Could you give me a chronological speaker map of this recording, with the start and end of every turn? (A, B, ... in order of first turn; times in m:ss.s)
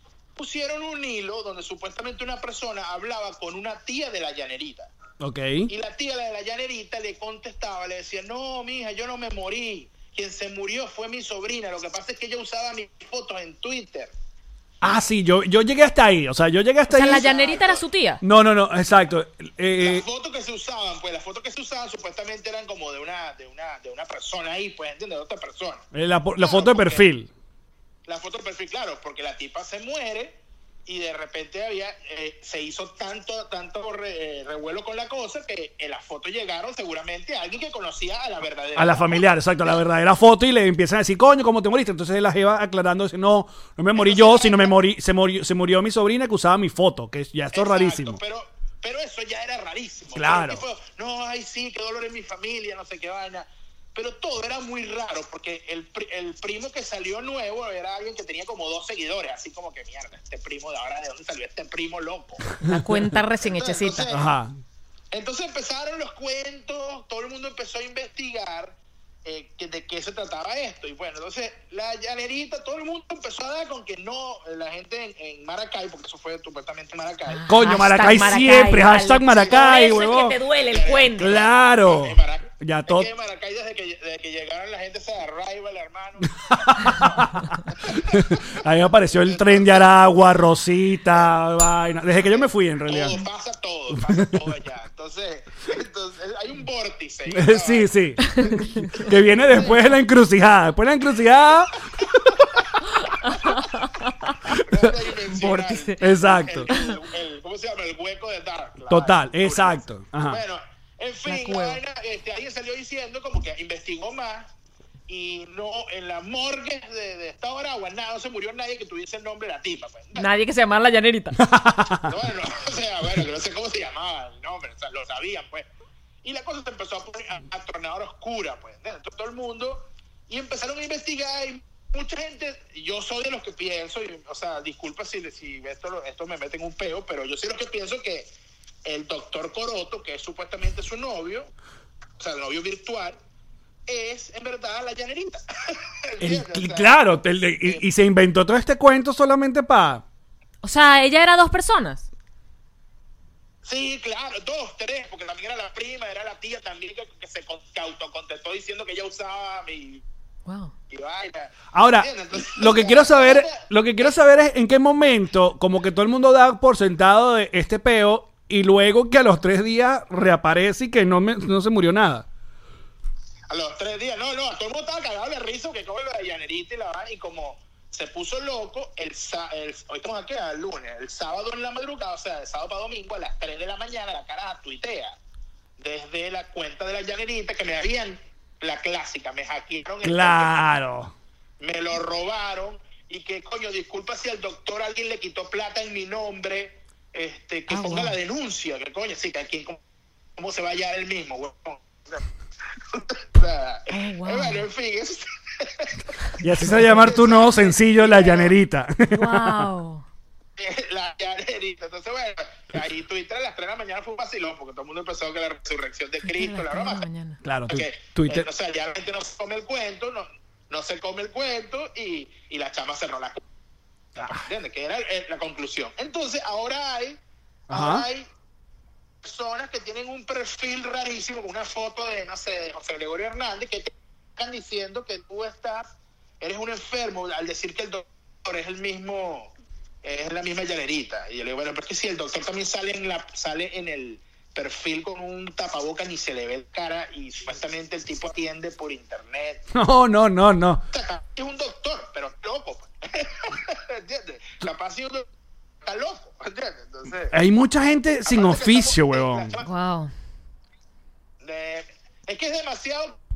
0:00.4-0:04.9 A
0:05.2-0:05.7 B
0:05.7-0:14.1 A
0:14.8-0:17.3 B
0:16.9-0:18.2 C
0:17.0-0:17.8 A
0:18.2-0:20.0 B
0:19.8-0:25.8 A
0:25.9-0:27.3 B
0:26.4-0:27.0 A
0:28.0-0:39.2 A
0:38.8-0:48.2 B
0:43.9-0:44.8 A
0:47.5-1:02.6 A
0:50.1-0:50.6 B
1:02.6-1:03.0 B
1:02.6-1:04.1 C
1:03.4-1:04.3 A
1:04.1-1:04.5 B
1:05.1-1:17.5 A
1:17.3-1:21.3 C
1:17.5-1:20.4 B
1:19.3-1:28.6 A
1:21.2-1:23.1 B
1:26.4-1:33.2 B
1:29.1-1:30.3 A
1:32.2-1:38.0 A
1:33.9-1:34.5 B
1:37.3-1:42.4 B
1:38.3-1:39.0 C
1:38.5-1:39.8 A
1:43.1-1:44.5 C
1:43.3-1:43.6 A
1:44.5-1:54.5 A
1:45.3-1:46.0 C
1:46.0-1:46.7 B
1:46.7-1:46.9 C
1:48.9-1:50.4 B
1:51.3-1:51.8 C
1:55.1-2:00.3 A
2:00.2-2:01.4 C
2:01.4-2:02.1 B
2:02.0-2:05.7 A
2:06.2-2:18.3 A
2:18.8-2:21.5 A
2:22.2-2:23.2 A
2:23.9-2:27.0 A
2:26.2-2:30.0 B
2:30.6-2:32.1 C
2:33.6-2:40.0 A
2:40.4-2:40.7 C
2:40.9-2:43.6 A
2:41.7-2:52.3 B
2:53.5-3:05.2 A
3:05.8-3:10.5 A
3:10.0-3:11.1 B
3:11.6-3:19.8 A
3:17.7-3:18.2 C
3:20.4-3:22.2 A
3:22.9-3:28.5 A
3:23.9-3:24.6 C
3:26.4-3:29.6 B
3:29.1-3:30.0 C
3:30.6-3:37.0 A
3:36.2-3:37.4 C
3:37.4-3:38.5 B
3:37.7-3:43.4 A
3:44.1-3:48.2 A
3:44.2-3:44.4 B
3:47.7-3:48.0 B
3:49.2-3:55.8 A
3:56.4-3:59.5 A
4:00.0-4:09.6 A
4:09.7-4:10.8 B
4:10.9-4:15.2 A
4:15.8-4:17.3 A
4:17.3-4:19.5 B
4:18.2-4:19.7 A
4:19.6-4:20.1 C
4:21.4-4:23.2 A